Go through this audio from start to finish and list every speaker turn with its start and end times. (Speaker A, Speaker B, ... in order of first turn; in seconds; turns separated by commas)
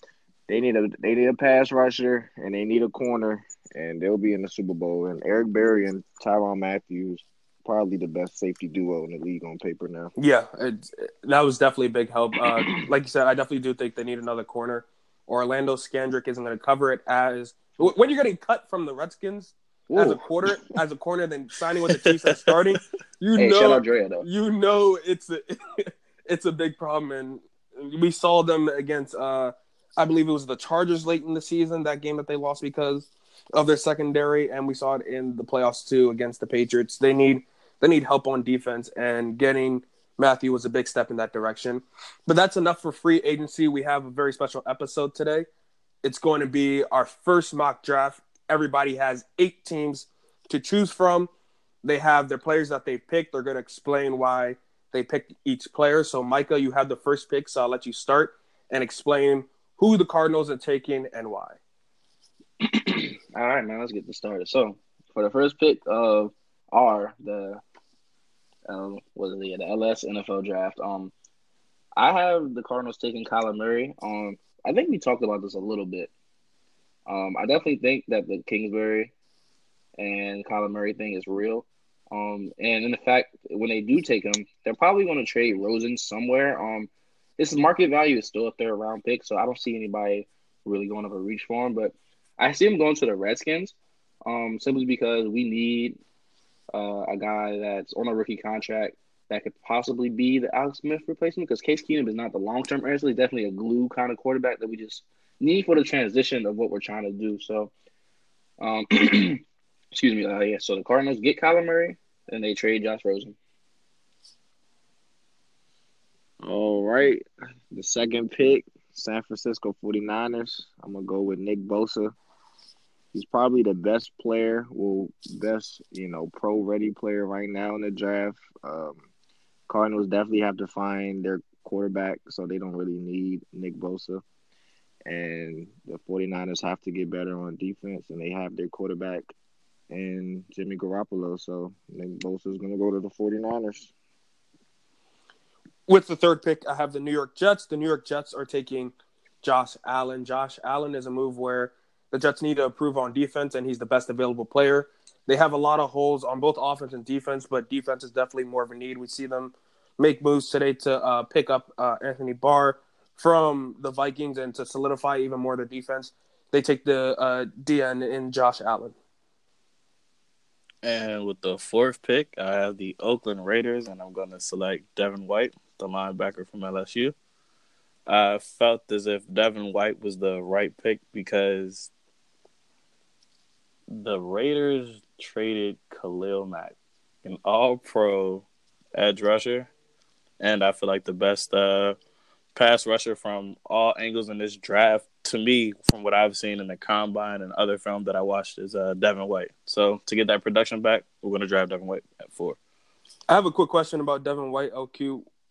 Speaker A: 0.5-10.1, Speaker B: 10.2-45.5, Speaker C: 19.9-20.2, Speaker C: 23.4-24.3, Speaker B: 46.0-51.3, Speaker B: 51.8-61.6, Speaker C: 62.6-67.6, Speaker C: 68.7-71.1, Speaker C: 72.0-76.1, Speaker C: 77.1-79.1, Speaker C: 80.0-96.0, Speaker C: 96.7-107.7, Speaker C: 108.6-109.4, Speaker C: 109.9-113.4, Speaker A: 116.4-122.2, Speaker A: 123.1-129.0, Speaker A: 129.7-134.2, Speaker A: 135.1-139.3, Speaker A: 139.9-143.9, Speaker B: 145.9-168.9, Speaker D: 170.8-177.1, Speaker D: 178.1-181.9, Speaker D: 183.9-189.7, Speaker D: 190.4-192.0, Speaker D: 192.6-202.6, Speaker B: 203.3-205.3